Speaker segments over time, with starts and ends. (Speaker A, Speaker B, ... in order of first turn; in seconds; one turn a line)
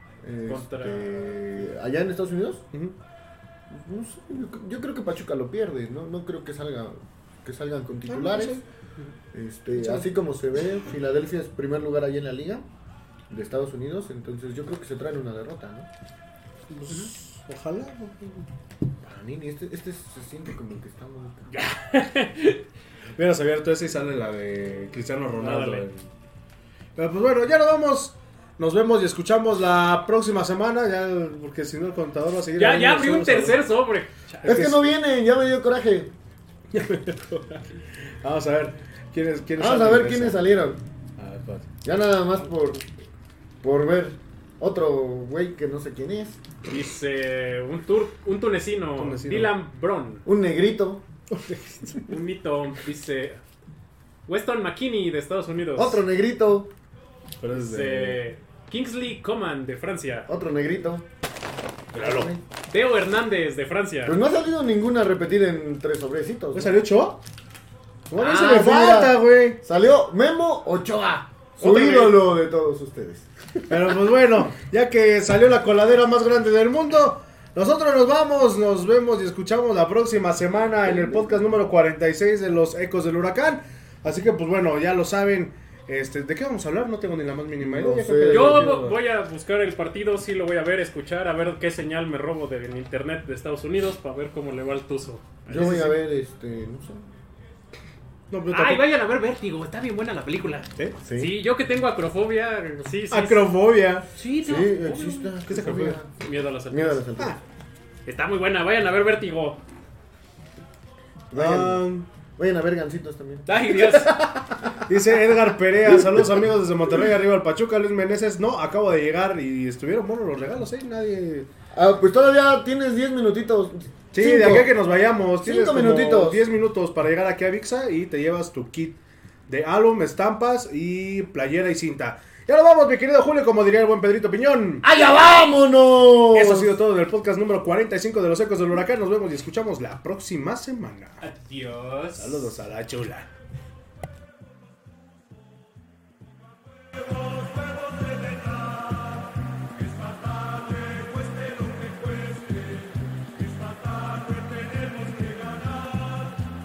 Speaker A: 0.2-2.6
Speaker B: 0.5-1.7
Speaker A: 3.7-8.6
Speaker C: 8.1-8.6
Speaker A: 9.3-12.7
Speaker C: 9.8-10.1
Speaker A: 13.3-15.9
Speaker C: 16.7-18.5
Speaker A: 19.0-21.5
Speaker B: 21.5-22.6
Speaker C: 23.2-26.1
Speaker B: 25.4-25.9
Speaker C: 27.0-33.7
Speaker B: 32.6-34.6
Speaker C: 34.4-34.9
Speaker A: 34.4-36.1
Speaker C: 36.7-40.4
Speaker A: 39.6-40.8
Speaker C: 41.2-41.7
Speaker A: 41.8-42.9
Speaker A: 43.6-46.4
Speaker B: 46.6-50.2
Speaker C: 49.0-49.6
Speaker A: 50.2-51.0
Speaker C: 51.3-52.0
Speaker B: 52.1-53.4
Speaker B: 54.3-56.0
Speaker A: 55.8-56.7
Speaker C: 57.4-58.2
Speaker B: 57.5-60.3
Speaker A: 60.3-61.1
Speaker C: 61.9-62.4
Speaker A: 62.0-62.4
Speaker B: 62.7-64.2
Speaker A: 64.0-66.8
Speaker C: 66.5-67.2
Speaker C: 68.1-69.6
Speaker A: 68.2-73.3
Speaker C: 71.6-72.2
Speaker B: 71.6-72.0
Speaker C: 73.7-89.0
Speaker A: 87.6-88.7
Speaker B: 88.3-95.8
Speaker A: 95.5-97.0
Speaker C: 95.5-96.0
Speaker C: 98.3-98.8
Speaker B: 98.5-103.5
Speaker A: 101.0-101.4
Speaker C: 103.1-104.1
Speaker B: 104.1-105.3
Speaker A: 104.4-106.1
Speaker C: 105.5-106.0
Speaker B: 106.2-107.0
Speaker A: 106.7-107.4
Speaker B: 108.1-109.6
Speaker C: 111.3-112.1
Speaker A: 111.3-114.8
Speaker B: 113.5-114.3
Speaker C: 114.9-121.5
Speaker A: 121.7-124.7
Speaker C: 124.1-134.9
Speaker A: 125.4-126.4
Speaker A: 134.8-136.7
Speaker C: 136.3-141.2
Speaker B: 141.2-142.4
Speaker C: 142.2-143.3
Speaker C: 147.2-148.7
Speaker C: 150.0-152.8
Speaker C: 153.4-156.2